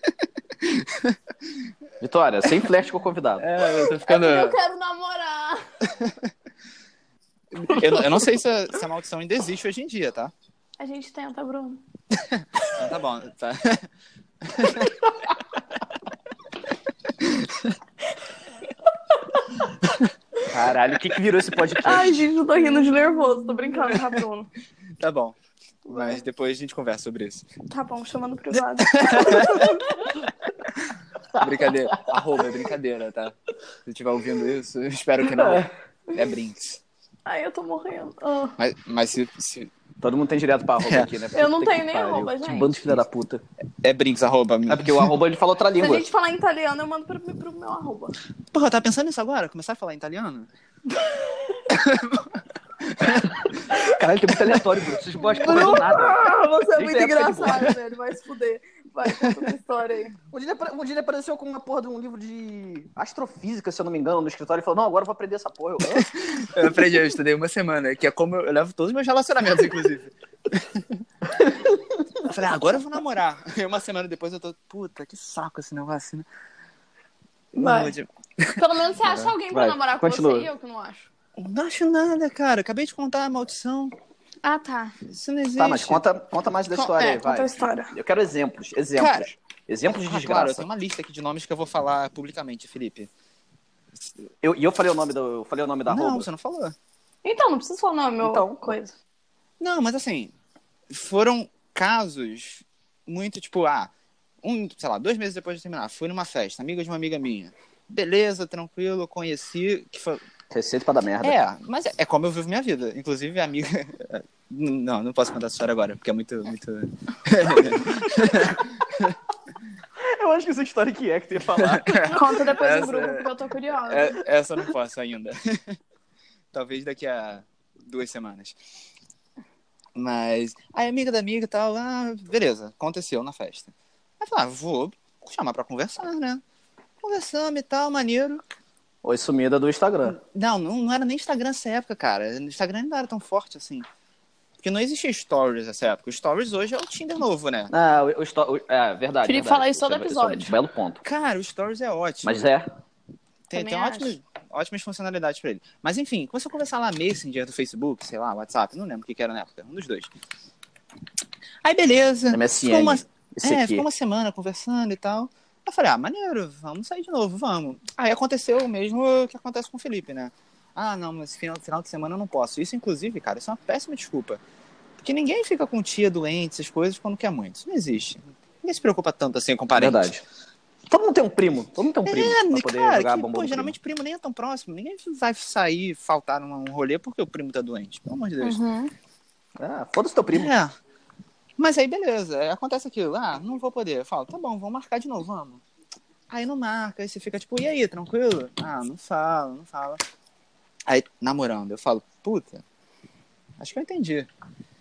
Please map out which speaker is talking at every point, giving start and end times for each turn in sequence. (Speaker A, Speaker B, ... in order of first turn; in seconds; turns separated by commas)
Speaker A: 0.6-1.2, Speaker B: 2.0-3.5, Speaker A: 3.4-4.6, Speaker C: 3.8-5.9, Speaker A: 7.5-10.3, Speaker C: 7.8-8.1, Speaker C: 10.8-11.8, Speaker A: 12.1-13.9, Speaker A: 14.4-15.1, Speaker A: 17.2-17.8, Speaker B: 20.5-22.2, Speaker C: 21.8-24.5, Speaker A: 25.0-25.4, Speaker C: 25.9-26.2, Speaker A: 25.9-27.5, Speaker C: 27.7-30.1, Speaker A: 28.8-29.8, Speaker B: 31.4-32.2, Speaker A: 31.4-36.8, Speaker B: 35.3-35.7, Speaker C: 37.3-38.6, Speaker A: 38.6-39.7, Speaker B: 40.0-43.4, Speaker A: 40.8-41.1, Speaker C: 41.3-42.8, Speaker A: 43.8-45.1, Speaker B: 44.7-46.0, Speaker C: 45.8-48.2, Speaker A: 48.5-50.5, Speaker C: 50.9-51.6, Speaker A: 51.7-53.5, Speaker B: 53.1-57.7, Speaker C: 55.2-60.2, Speaker A: 55.5-56.0, Speaker A: 59.0-59.5, Speaker B: 60.3-66.1, Speaker A: 65.9-71.0, Speaker B: 71.4-72.0, Speaker A: 72.2-76.3, Speaker A: 77.5-79.3, Speaker C: 77.6-78.0, Speaker C: 78.5-81.1, Speaker B: 79.5-80.5, Speaker A: 81.4-83.9, Speaker C: 84.4-85.0, Speaker A: 85.1-86.0, Speaker B: 85.6-90.7, Speaker C: 86.8-87.9, Speaker A: 89.0-89.3, Speaker A: 89.9-93.1, Speaker B: 94.4-96.3, Speaker A: 95.9-96.8, Speaker C: 97.2-98.9, Speaker B: 98.2-98.8, Speaker A: 99.6-100.3, Speaker A: 100.9-110.2, Speaker B: 110.5-111.4, Speaker A: 111.2-119.2, Speaker B: 117.7-118.7, Speaker B: 120.0-122.3, Speaker A: 121.6-125.8, Speaker C: 122.1-124.2, Speaker A: 126.5-128.6, Speaker A: 129.9-136.4, Speaker A: 137.0-138.5, Speaker B: 139.0-140.2, Speaker A: 140.1-143.9, Speaker A: 144.6-147.7, Speaker B: 147.7-151.0, Speaker C: 149.2-150.6, Speaker A: 151.0-152.5, Speaker B: 152.2-152.7, Speaker A: 153.5-160.1, Speaker C: 153.5-154.1, Speaker A: 161.6-174.4, Speaker B: 162.3-163.9, Speaker A: 175.0-180.1, Speaker B: 179.7-180.2, Speaker B: 180.9-183.7, Speaker A: 182.1-188.6, Speaker C: 188.4-188.9, Speaker B: 189.6-190.5, Speaker A: 190.3-190.7, Speaker A: 191.6-195.6, Speaker A: 196.3-200.0, Speaker A: 200.9-202.6, Speaker A: 203.6-204.3